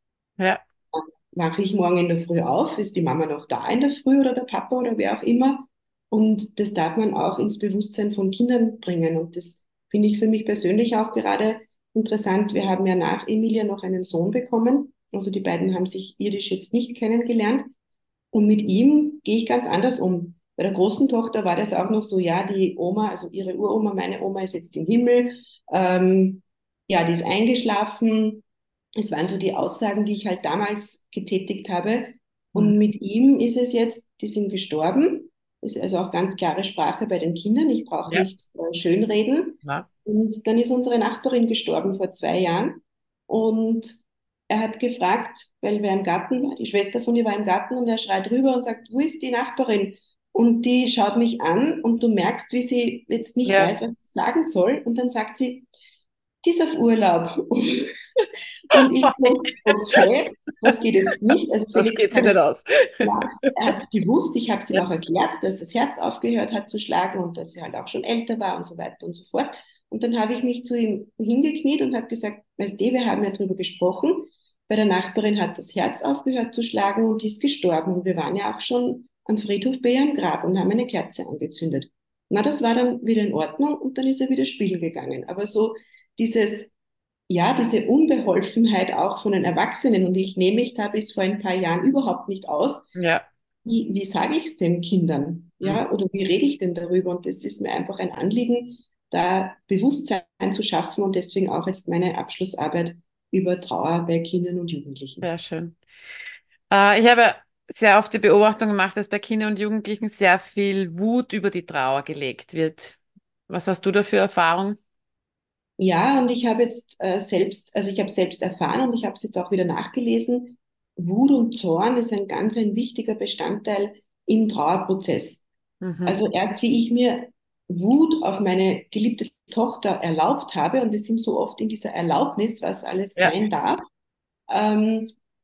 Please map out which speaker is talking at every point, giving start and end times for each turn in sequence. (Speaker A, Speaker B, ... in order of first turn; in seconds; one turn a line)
Speaker A: 0.9-17.7
Speaker A: 18.3-28.4
Speaker A: 29.0-55.7
Speaker B: 53.4-53.7
Speaker A: 56.4-57.9
Speaker A: 58.7-62.4
Speaker B: 59.1-60.0
Speaker B: 61.3-63.1
Speaker A: 63.0-86.7
Speaker A: 87.3-92.9
Speaker B: 92.9-93.3
Speaker A: 93.6-105.3
Speaker B: 105.2-105.8
Speaker B: 106.7-114.8
Speaker A: 115.8-125.5
Speaker B: 125.8-126.2
Speaker A: 126.0-133.9
Speaker A: 134.5-135.1